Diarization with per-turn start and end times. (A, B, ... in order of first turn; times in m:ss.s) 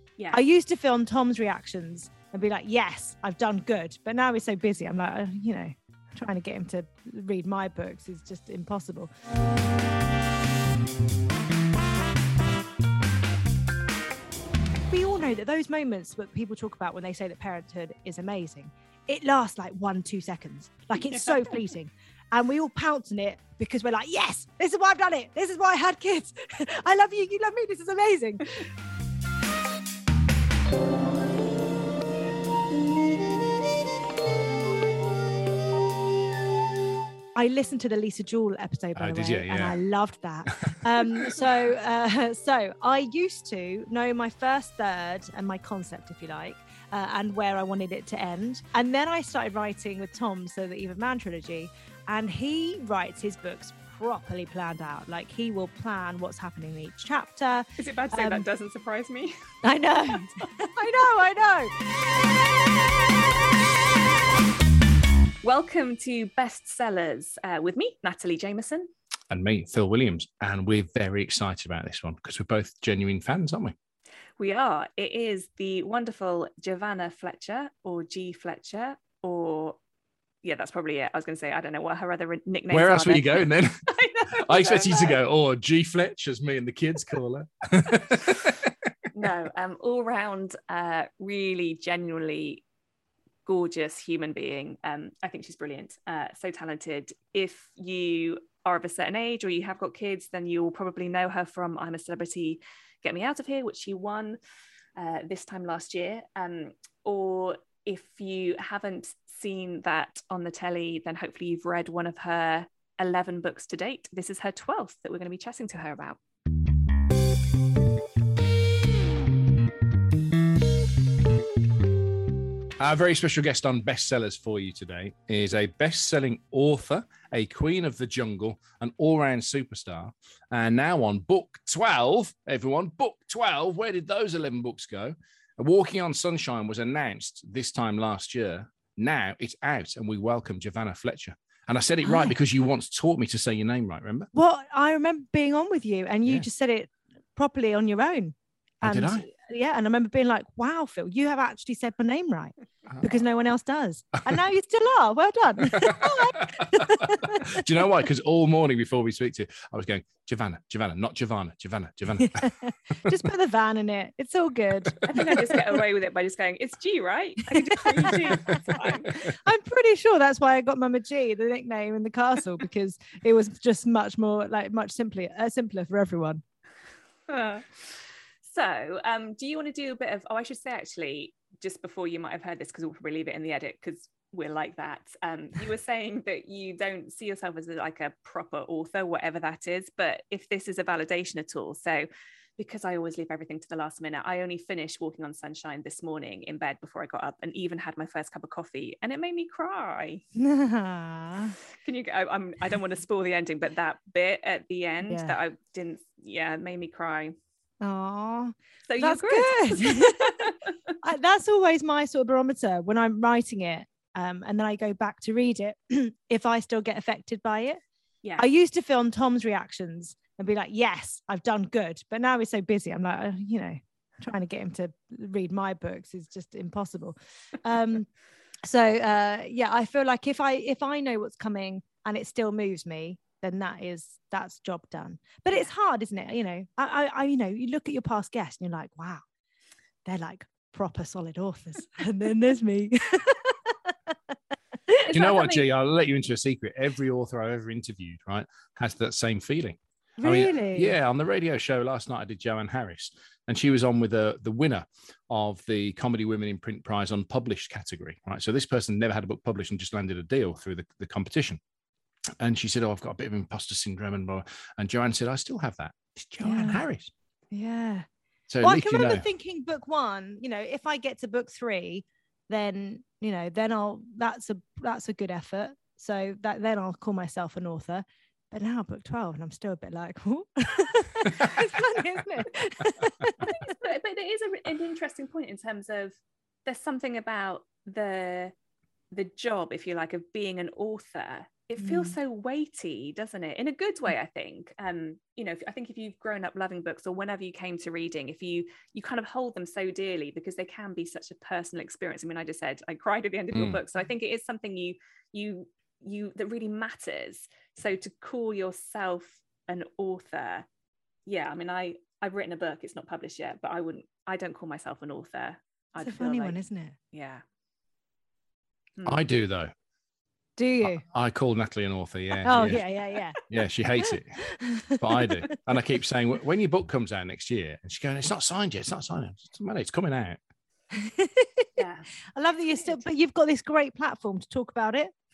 0:00.3-0:09.1 A
0:14.9-0:28.6 A
0:21.0-0:21.6 B
0:37.3-0:58.4 A
0:39.0-0:39.8 C
0:40.5-0:40.8 C
0:57.8-0:59.3 B
0:59.6-1:01.7 A
1:00.1-1:00.4 B
1:05.4-1:08.9 B
1:09.3-1:13.8 C
1:14.4-1:19.8 B
1:20.4-1:25.2 B
1:22.7-1:28.9 C
1:29.1-1:32.6 B
1:33.4-1:44.4 B
1:45.0-1:56.2 B
2:02.8-2:24.3 C
2:22.0-2:22.3 A
2:24.3-2:37.6 A
2:28.8-2:29.2 C
2:35.7-2:42.5 C
2:42.2-2:45.6 A
2:45.0-2:49.2 B
2:47.5-2:56.4 A
2:48.2-2:48.6 C
2:57.3-3:12.1 B
3:12.6-3:20.2 B
3:20.4-3:21.6 A
3:21.8-3:27.3 B
3:25.0-3:25.3 A
3:27.8-3:37.8 A
3:28.9-3:30.7 B
3:38.4-3:48.1 A
3:48.6-3:59.2 A
4:00.0-4:03.7 A
4:05.1-4:05.6 B
4:05.1-4:21.6 C
4:10.2-4:11.0 A
4:22.4-4:27.1 C
4:26.4-4:26.8 A
4:27.5-4:28.1 A
4:28.5-4:29.2 C
4:28.6-4:43.5 A
4:41.2-4:41.5 C
4:43.4-4:48.5 B
4:49.1-5:10.6 B
4:51.8-4:52.2 A
5:03.5-5:03.8 C
5:11.2-5:16.6 B
5:16.0-5:17.0 A
5:17.1-5:17.4 B
5:19.0-5:19.7 C
5:20.6-5:21.0 A
5:20.8-5:22.8 C
5:22.4-5:23.4 A
5:23.5-5:24.4 C
5:24.0-5:25.6 A
5:25.0-5:30.4 C
5:30.9-5:31.8 A
5:31.8-5:32.1 B
5:32.3-5:35.1 A